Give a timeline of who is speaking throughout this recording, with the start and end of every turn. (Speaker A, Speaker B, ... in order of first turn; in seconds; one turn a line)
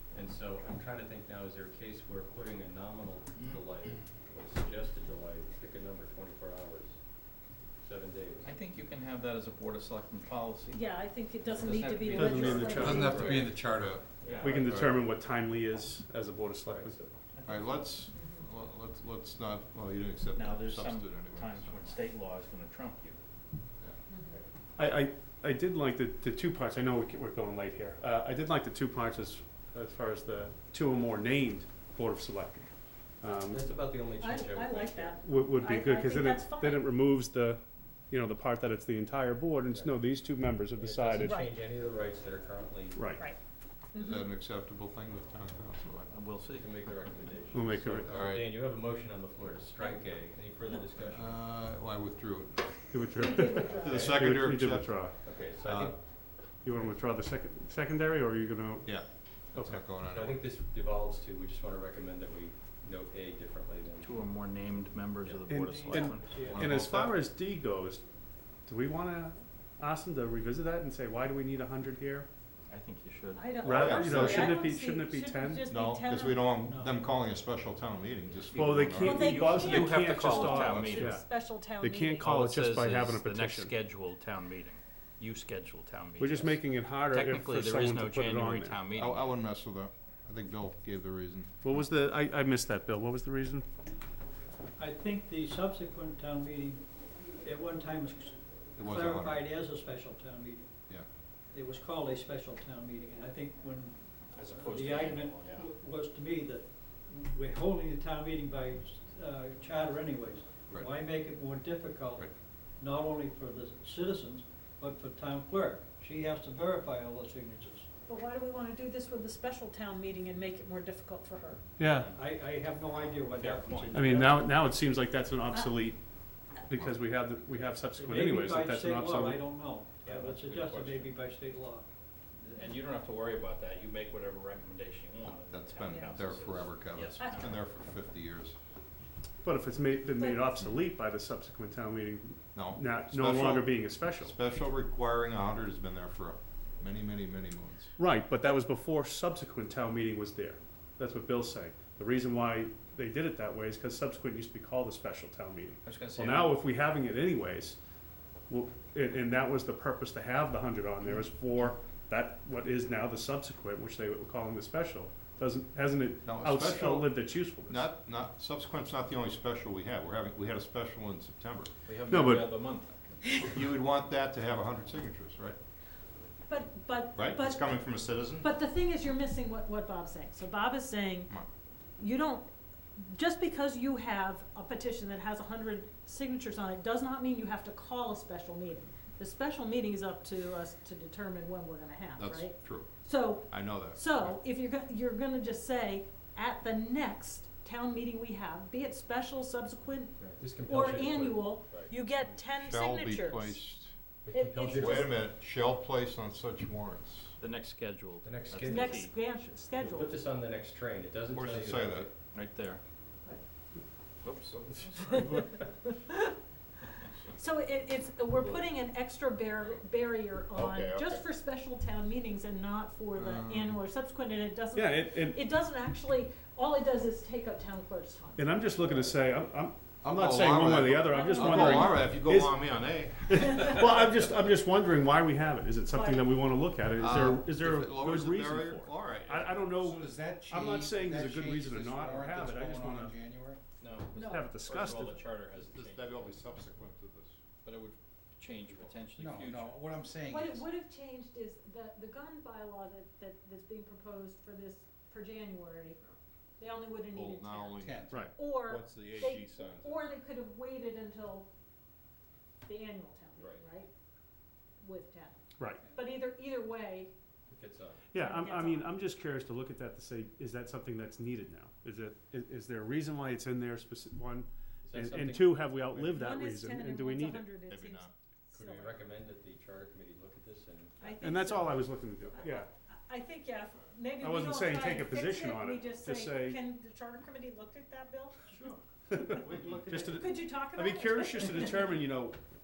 Speaker A: 0.1-7.0
Speaker A: 7.8-8.5
Speaker B: 8.4-13.4
Speaker C: 10.7-13.5
Speaker A: 12.0-13.6
Speaker D: 12.1-13.1
Speaker E: 12.7-15.0
Speaker A: 14.2-14.6
Speaker B: 14.2-14.6
Speaker D: 14.4-17.0
Speaker A: 16.6-17.1
Speaker B: 17.3-17.9
Speaker E: 17.4-22.0
Speaker C: 18.1-18.4
Speaker B: 20.3-23.2
Speaker C: 24.1-24.4
Speaker D: 24.8-33.6
Speaker A: 33.2-35.2
Speaker C: 34.1-36.9
Speaker D: 35.2-41.3
Speaker A: 39.7-40.0
Speaker A: 40.8-43.0
Speaker C: 41.2-41.5
Speaker D: 43.0-43.2
Speaker C: 43.9-44.3
Speaker E: 43.9-46.1
Speaker B: 46.1-46.8
Speaker A: 46.5-51.3
Speaker D: 47.5-48.1
Speaker E: 48.0-48.5
Speaker E: 51.0-53.0
Speaker D: 52.9-55.1
Speaker C: 53.2-54.1
Speaker E: 53.5-54.9
Speaker A: 53.7-54.1
Speaker A: 55.2-56.0
Speaker E: 55.6-55.9
Speaker D: 56.6-59.0
Speaker E: 58.9-60.4
Speaker D: 59.5-59.8
Speaker A: 60.1-64.2
Speaker B: 64.0-66.9
Speaker D: 65.5-68.0
Speaker F: 65.6-66.6
Speaker E: 66.5-67.1
Speaker D: 68.7-72.3
Speaker B: 72.7-73.6
Speaker C: 73.3-76.5
Speaker E: 73.6-74.6
Speaker D: 73.6-75.7
Speaker E: 75.7-80.1
Speaker F: 76.6-77.0
Speaker D: 78.5-81.2
Speaker B: 78.5-81.2
Speaker C: 79.0-82.3
Speaker E: 80.7-81.0
Speaker D: 81.8-83.7
Speaker B: 82.2-89.3
Speaker D: 86.2-88.8
Speaker E: 88.9-91.5
Speaker D: 91.6-93.7
Speaker F: 94.8-96.8
Speaker F: 97.4-100.7
Speaker E: 98.8-99.4
Speaker F: 101.5-112.3
Speaker B: 104.3-105.7
Speaker F: 112.8-117.9
Speaker C: 118.0-121.6
Speaker D: 121.8-122.1
Speaker A: 121.8-122.1
Speaker F: 122.1-124.5
Speaker B: 123.3-124.1
Speaker D: 123.9-126.0
Speaker C: 125.5-125.8
Speaker D: 126.7-129.4
Speaker F: 127.9-131.9
Speaker B: 130.0-131.1
Speaker B: 132.4-137.6
Speaker E: 135.5-138.6
Speaker C: 135.8-136.2
Speaker C: 137.1-137.4
Speaker D: 139.4-144.3
Speaker C: 140.1-140.6
Speaker E: 142.5-147.9
Speaker D: 148.0-157.8
Speaker B: 155.8-156.6
Speaker D: 158.5-167.9
Speaker E: 166.2-171.7
Speaker B: 171.9-172.9
Speaker D: 172.1-172.6
Speaker E: 173.4-175.6
Speaker C: 176.5-181.3
Speaker E: 177.2-178.4
Speaker C: 182.0-203.6
Speaker E: 192.2-194.2
Speaker A: 200.2-201.9
Speaker E: 202.6-203.9
Speaker A: 204.2-205.1
Speaker C: 204.3-205.1
Speaker E: 204.7-207.3
Speaker B: 207.4-209.1
Speaker A: 208.2-209.0
Speaker C: 208.6-210.1
Speaker A: 209.8-212.1
Speaker E: 211.3-212.1
Speaker B: 212.3-212.8
Speaker B: 214.2-214.5
Speaker A: 214.6-215.5
Speaker C: 215.0-216.3
Speaker C: 217.3-228.5
Speaker E: 220.5-221.2
Speaker E: 223.2-223.8
Speaker D: 224.7-225.4
Speaker D: 228.4-232.5
Speaker E: 230.0-233.8
Speaker C: 231.1-232.1
Speaker D: 233.3-243.2
Speaker C: 235.9-236.3
Speaker E: 237.0-240.0
Speaker G: 239.9-243.6
Speaker B: 243.8-246.3
Speaker C: 244.1-244.4
Speaker D: 244.2-245.2
Speaker E: 245.6-247.4
Speaker B: 247.6-249.8
Speaker A: 248.5-248.9
Speaker G: 249.2-250.5
Speaker C: 250.1-256.0
Speaker C: 256.6-261.5
Speaker E: 257.1-260.1
Speaker D: 258.1-258.4
Speaker C: 262.6-263.9
Speaker C: 264.8-267.1
Speaker D: 265.6-265.9
Speaker A: 267.5-268.0
Speaker D: 268.1-277.5
Speaker C: 268.1-269.0
Speaker A: 274.8-276.1
Speaker C: 276.0-279.0
Speaker E: 277.7-278.1
Speaker A: 278.5-281.6
Speaker C: 281.0-288.5
Speaker D: 281.2-282.7
Speaker D: 284.2-286.6
Speaker D: 289.1-292.4
Speaker A: 289.4-289.9
Speaker E: 289.7-290.0
Speaker C: 290.1-292.0